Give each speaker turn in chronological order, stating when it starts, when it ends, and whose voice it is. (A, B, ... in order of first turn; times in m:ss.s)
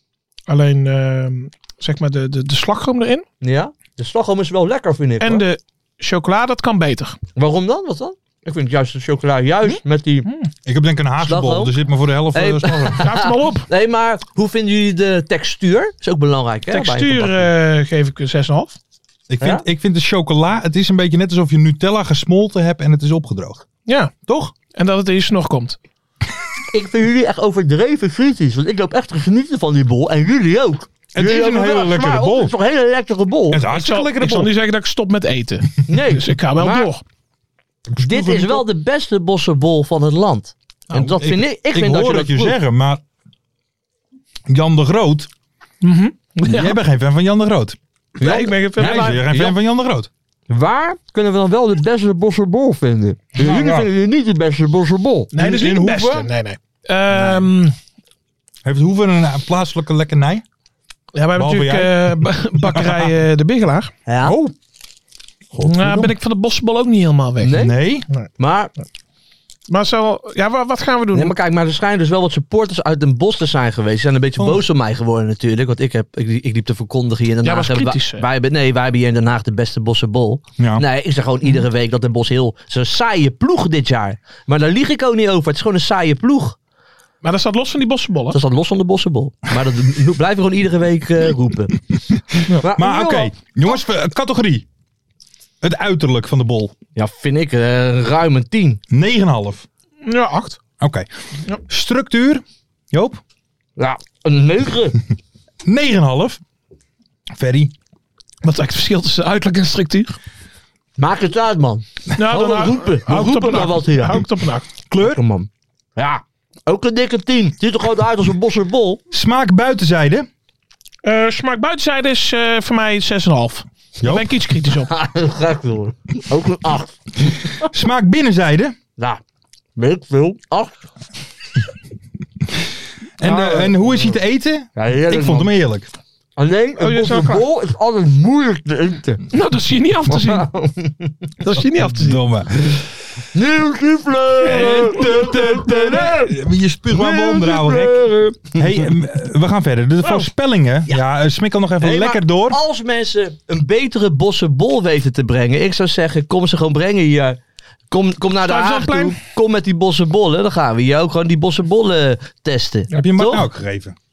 0:00.5-0:03.2 A
0:03.4-0:05.4 B
0:05.2-0:07.2 A
0:07.4-0:10.3 B
0:10.6-0:13.0 C
0:11.2-0:11.8 B
0:12.3-0:17.5 B
0:13.0-0:13.7 A
0:16.7-0:18.8 A
0:19.3-0:23.6 C
0:23.8-0:24.1 A
0:24.2-0:24.5 C
0:24.7-0:25.8 A
0:26.7-0:33.6 B
0:31.1-0:32.5 C
0:33.5-0:34.5 C
0:33.7-0:37.0 A
0:35.9-0:36.9 B
0:37.9-0:38.6 C
0:38.0-0:42.6 B
0:40.9-0:43.0 C
0:44.5-0:45.3 C
0:45.8-0:46.7 A
0:46.4-0:47.8 C
0:48.2-0:49.6 B
0:48.2-0:49.2 A
0:48.8-0:50.1 C
0:50.5-0:55.3 B
0:53.4-0:53.9 C
0:55.3-0:57.8 A
0:55.4-0:56.3 C
0:57.1-0:57.5 C
0:58.6-1:00.4 C
1:01.1-1:03.9 A
1:01.3-1:03.1 C
1:04.0-1:04.4 B
1:04.2-1:04.5 C
1:05.6-1:06.1 C
1:05.6-1:07.6 A
1:07.4-1:07.8 B
1:07.5-1:08.1 C
1:08.4-1:08.7 B
1:09.7-1:11.3 A
1:11.1-1:26.6 B
1:14.4-1:14.6 C
1:17.4-1:18.2 A
1:20.6-1:20.8 C
1:27.2-1:28.4 A
1:28.3-1:31.8 B
1:32.1-1:34.7 C
1:32.6-1:33.3 B
1:35.6-1:36.7 C
1:37.0-1:38.8 B
1:38.9-1:39.6 C
1:40.0-1:40.6 A
1:40.8-1:41.1 C
1:41.6-1:43.2 C
1:43.8-1:45.0 B
1:45.6-1:46.4 C
1:47.3-1:47.7 C
1:48.4-1:50.2 A
1:51.0-1:54.2 B
1:52.2-1:54.6 A
1:54.9-1:55.2 C
1:55.0-1:59.0 B
1:59.1-2:00.3 C
2:01.0-2:04.9 A
2:04.0-2:04.4 C
2:04.8-2:07.7 B
2:07.6-2:08.8 C
2:09.8-2:10.8 B
2:13.2-2:15.9 C
2:13.2-2:14.2 B
2:14.7-2:15.5 B
2:16.4-2:19.2 B
2:16.8-2:17.4 A
2:19.3-2:20.5 A
2:20.1-2:21.1 B
2:21.4-2:22.2 A
2:21.7-2:22.8 C
2:23.3-2:28.9 B
2:24.4-2:32.6 C
2:31.8-2:37.4 B
2:37.9-2:43.4 B
2:38.4-2:39.2 A
2:42.9-2:44.0 C